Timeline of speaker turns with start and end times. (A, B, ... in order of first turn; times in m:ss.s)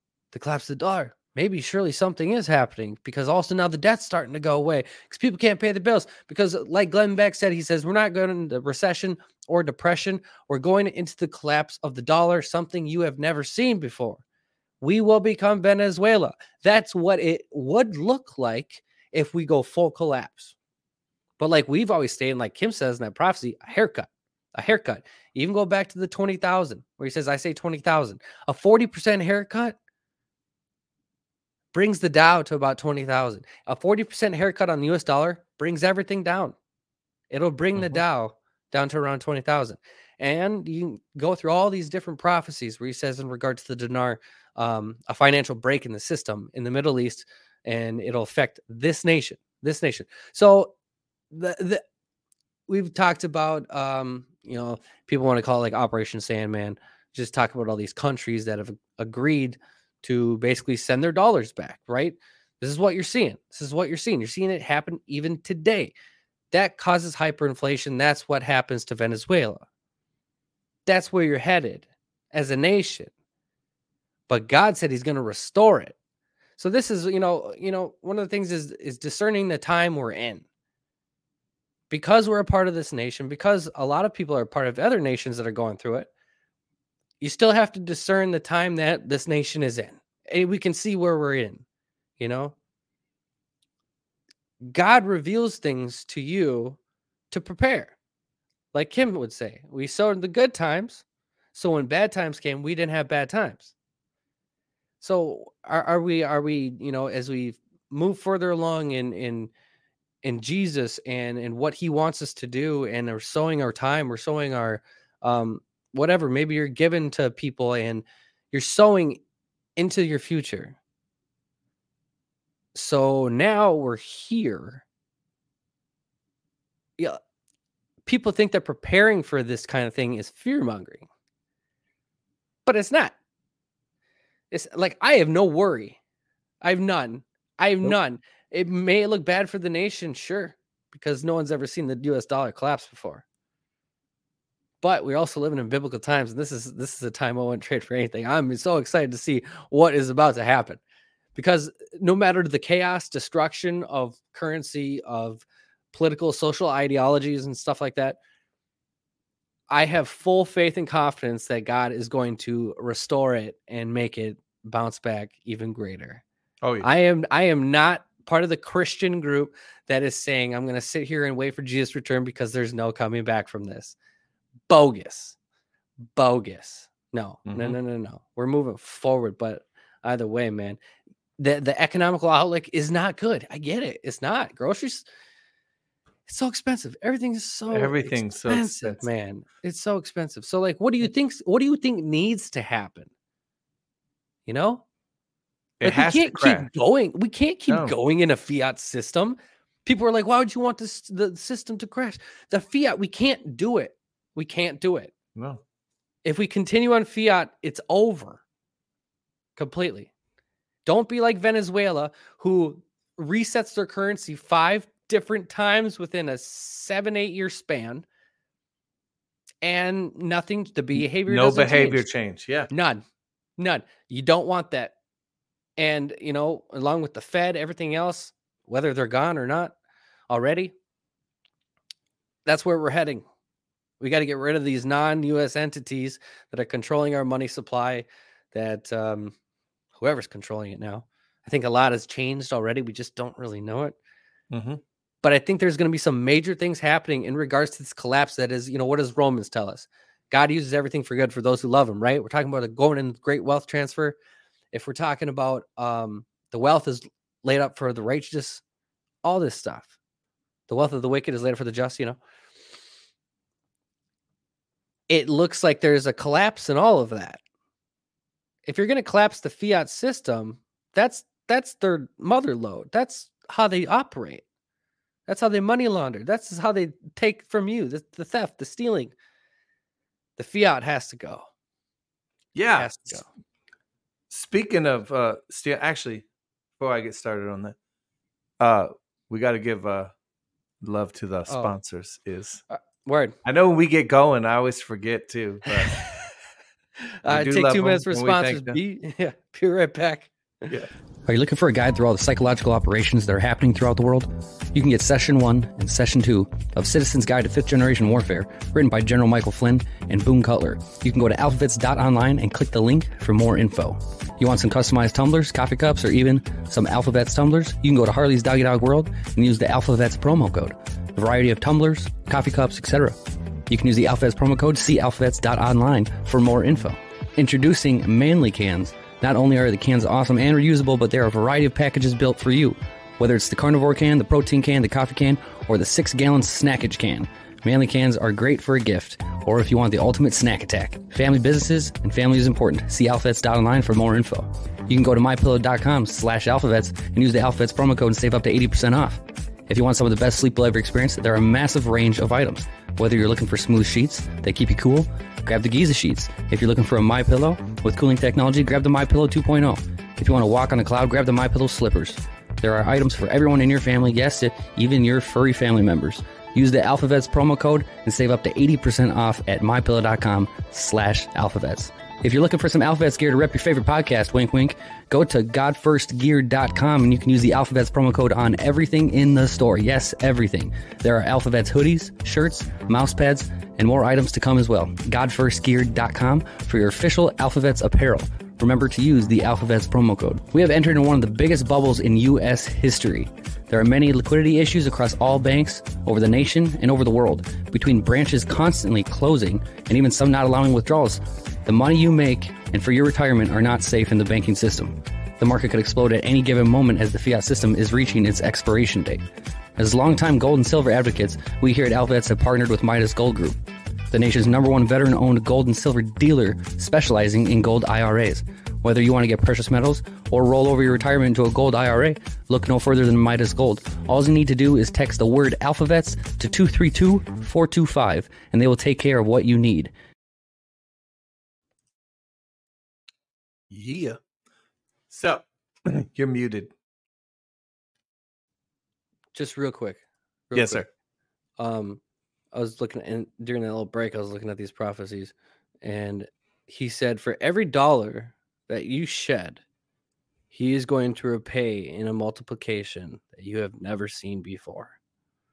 0:00.3-0:14.2 A
0:14.8-0:20.5 A
0:21.4-0:29.8 A
0:31.7-0:36.5 A
0:37.3-0:50.7 A
0:51.3-0:51.8 A
0:52.7-1:05.9 A
1:06.5-1:09.6 A
1:10.8-1:13.1 A
1:14.3-1:15.9 A
1:16.6-1:20.4 A
1:21.9-1:26.1 A
1:27.2-1:31.6 A
1:32.2-1:32.5 A
1:34.7-1:36.8 A
1:37.3-1:37.9 A
1:38.7-1:43.7 A
1:45.0-1:49.5 A
1:50.2-1:59.2 A
1:59.8-2:00.8 A
2:02.7-2:04.8 A
2:08.0-2:11.1 A
2:12.6-2:13.1 A
2:14.5-2:16.0 A
2:16.6-2:23.2 A
2:24.8-2:30.8 A
2:31.3-2:38.2 A
2:39.7-2:46.2 A
2:46.6-2:46.9 B
2:46.8-2:54.0 A
2:54.7-2:55.4 A
2:56.1-3:00.8 A
2:57.4-2:57.8 B
3:01.4-3:05.0 A
3:06.2-3:13.1 A
3:07.7-3:09.0 B
3:14.4-3:14.8 A
3:15.8-3:16.7 B
3:15.8-3:25.1 A
3:17.7-3:17.9 B
3:25.4-3:25.6 B
3:26.2-3:28.4 A
3:29.6-3:30.1 A
3:30.8-3:38.0 A
3:39.6-3:42.0 A
3:40.9-3:42.7 B
3:42.7-3:43.0 A
3:43.6-3:44.9 A
3:45.8-3:49.7 A
3:50.3-3:50.7 A
3:52.4-3:53.2 A
3:54.0-3:59.3 A
4:00.0-4:04.0 A
4:04.5-4:04.8 B
4:05.2-4:14.2 A
4:14.7-4:18.6 A
4:19.2-4:19.9 A
4:20.7-4:22.2 A
4:25.1-4:27.4 A
4:28.6-4:34.4 A
4:35.3-4:39.1 A
4:40.4-4:41.5 A
4:42.5-4:43.0 B
4:42.7-4:43.3 A
4:44.3-4:46.3 B
4:46.8-4:47.8 B
4:48.6-4:50.1 B
4:50.8-4:52.6 B
4:51.5-4:51.8 A
4:52.7-4:53.3 A
4:53.4-4:56.0 B
4:55.7-4:56.3 A
4:57.2-5:00.6 A
4:57.3-4:58.8 B
5:01.2-6:49.2 C
6:49.8-6:53.6 C
6:54.1-7:09.9 C
7:13.7-7:14.2 B
7:15.1-7:16.7 B
7:19.3-7:20.8 A
7:20.5-7:20.9 B
7:21.6-7:22.0 A
7:22.5-7:29.6 A
7:30.5-7:34.9 A